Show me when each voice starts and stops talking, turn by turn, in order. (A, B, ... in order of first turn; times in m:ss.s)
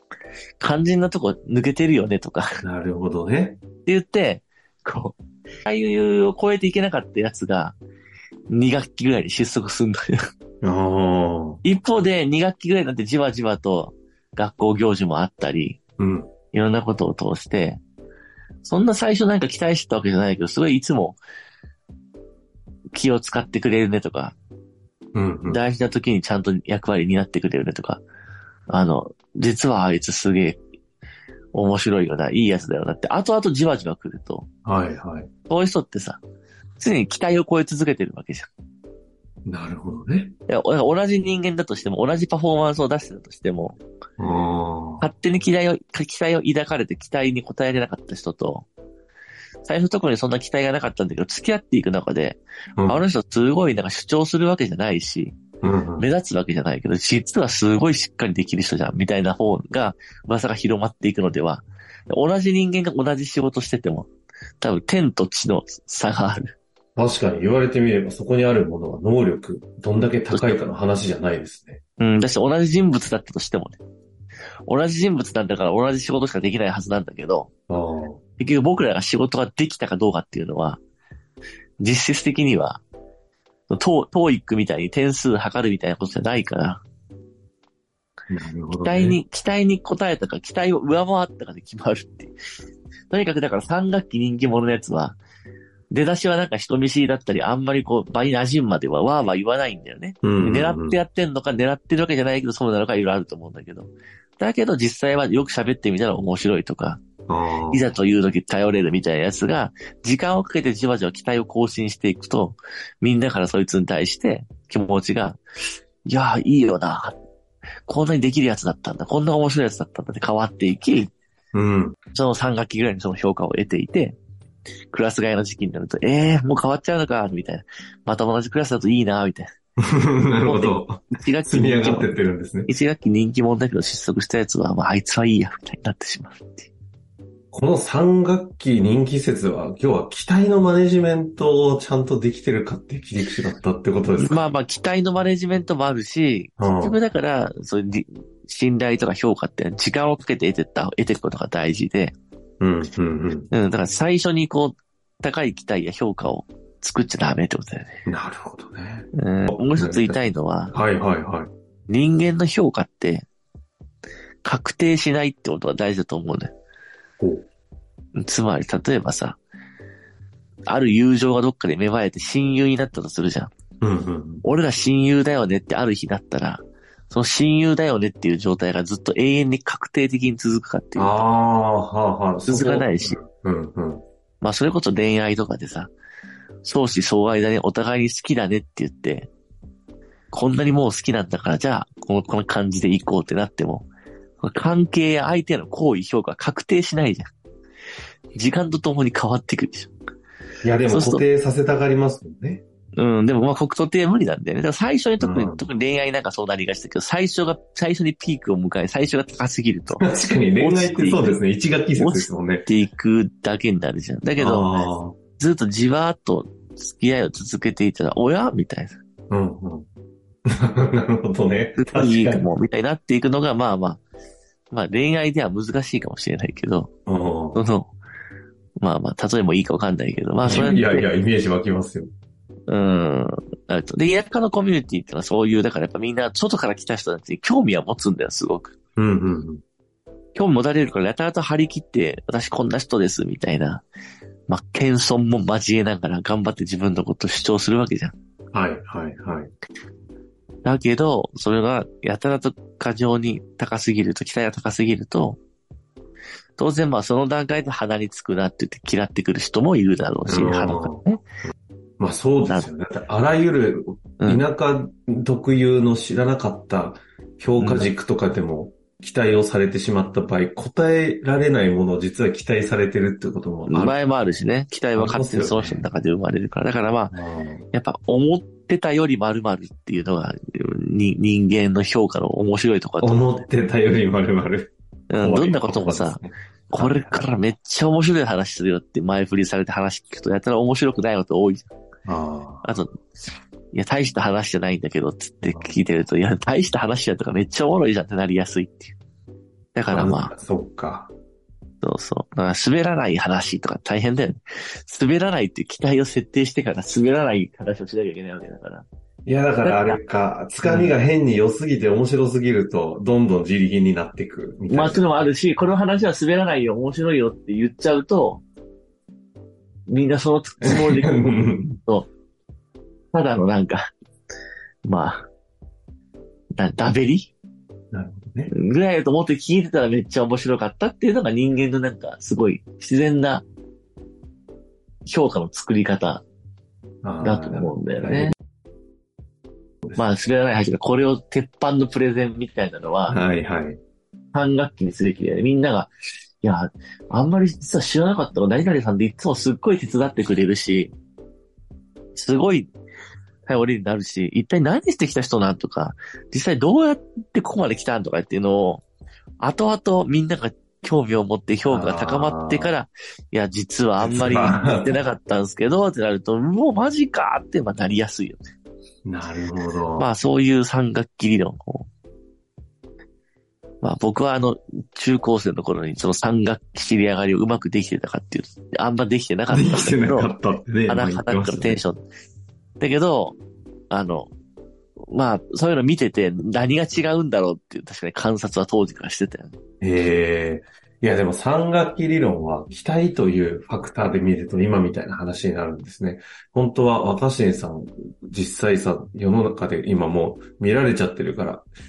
0:00.6-0:02.5 A
0:02.6-0:03.6 B
0:03.8-0:07.8 A
0:08.5-0:10.1 A
0:10.6-0:11.6 B
0:11.6-0:15.8 A
0:16.0-0:16.3 B
0:16.5-0:17.8 A
0:18.6-0:21.2 A
0:22.9-0:24.4 A
0:25.1-0:25.6 B
0:25.5-0:28.0 A
0:28.7-0:30.6 A
0:31.5-0:34.5 A
0:34.6-0:35.3 B
0:35.5-0:36.2 A
0:36.8-0:38.5 A
0:39.4-0:40.3 B
0:40.5-0:43.8 A
0:44.2-0:45.1 B
0:45.0-0:48.7 A
0:49.6-0:55.4 A
0:52.8-0:53.0 B
0:55.6-0:56.0 B
0:56.0-1:04.1 A
1:04.6-1:06.6 A
1:07.0-1:11.8 B
1:10.3-1:10.6 A
1:12.0-1:13.8 A
1:14.7-1:17.5 A
1:17.7-1:18.2 B
1:18.4-1:20.8 A
1:21.8-1:22.8 A
1:23.7-1:26.8 A
1:28.3-1:29.2 B
1:28.8-1:32.3 A
1:33.1-1:35.2 A
1:35.9-1:47.0 A
1:40.2-1:41.0 B
1:47.3-1:47.9 B
1:47.7-1:55.4 A
1:56.0-1:57.2 A
1:57.9-2:01.1 A
2:01.5-2:02.0 B
2:02.1-2:04.2 A
2:04.9-2:09.5 A
2:09.8-2:12.7 B
2:10.4-2:12.1 A
2:12.7-2:16.7 A
2:17.5-2:24.4 B
2:24.2-2:32.1 A
2:26.6-2:27.0 B
2:32.6-2:33.5 B
2:33.5-2:37.9 A
2:38.0-2:40.2 B
2:39.1-2:40.8 A
2:40.7-2:41.5 B
2:41.9-2:43.2 A
2:44.4-2:46.5 A
2:47.2-2:47.5 B
2:48.2-2:49.4 A
2:50.7-2:53.5 A
2:53.8-2:54.4 B
2:54.4-3:01.2 A
3:01.0-3:04.0 B
3:02.5-3:03.2 A
3:04.4-3:05.9 A
3:06.6-3:09.3 A
3:10.3-3:13.9 A
3:14.4-3:17.3 A
3:18.3-3:19.9 A
3:20.6-3:22.6 B
3:20.9-3:21.2 A
3:23.0-3:31.4 A
3:25.2-3:25.6 B
3:30.0-3:32.7 B
3:32.0-3:34.7 A
3:34.4-3:35.2 B
3:35.4-3:39.0 A
3:39.3-3:39.9 B
3:40.5-3:42.4 B
3:41.8-3:44.0 A
3:44.7-3:46.9 A
3:47.0-3:47.6 B
3:47.5-3:47.9 A
3:48.8-3:51.1 A
3:50.4-3:52.1 B
3:52.7-3:58.7 A
3:59.0-3:59.6 B
4:00.3-4:03.8 A
4:04.5-4:08.1 A
4:08.5-4:09.5 B
4:10.6-4:15.4 A
4:16.6-4:21.2 A
4:20.3-4:21.0 B
4:22.0-4:34.0 B
4:24.2-4:24.4 A
4:27.6-4:27.9 A
4:33.7-4:37.1 A
4:35.0-4:35.8 B
4:37.1-4:37.6 B
4:37.7-4:43.3 A
4:43.0-4:47.3 B
4:45.1-4:46.2 A
4:46.7-4:51.7 A
4:52.0-4:52.8 B
4:52.6-4:53.0 A
4:53.7-4:58.9 A
4:55.4-4:55.7 B
4:59.7-5:00.3 A
4:59.9-5:01.1 B
5:01.8-5:08.8 A
5:09.2-5:15.0 B
5:09.6-5:10.0 A
5:10.6-5:10.9 A
5:14.7-5:18.4 A
5:19.9-5:22.1 A
5:20.6-5:21.8 B
5:23.1-5:23.8 A
5:24.8-5:25.3 A
5:26.6-5:27.3 A
5:27.9-5:28.5 B
5:28.5-5:33.4 A
5:35.0-5:36.2 A
5:37.0-5:38.3 B
5:37.2-5:38.3 A
5:40.0-5:43.2 A
5:43.1-5:43.8 B
5:44.3-5:45.9 A
5:46.4-5:50.9 A
5:52.1-5:52.7 A
5:53.4-5:58.8 A
5:59.4-6:08.4 A
6:01.7-6:02.8 B
6:04.0-6:05.0 B
6:09.0-6:10.1 B
6:10.0-6:11.9 A
6:13.8-6:20.3 A
6:19.5-6:21.8 B
6:20.9-6:22.0 A
6:22.8-6:23.4 A
6:23.9-6:24.3 A
6:25.1-6:29.6 A
6:29.8-6:41.6 B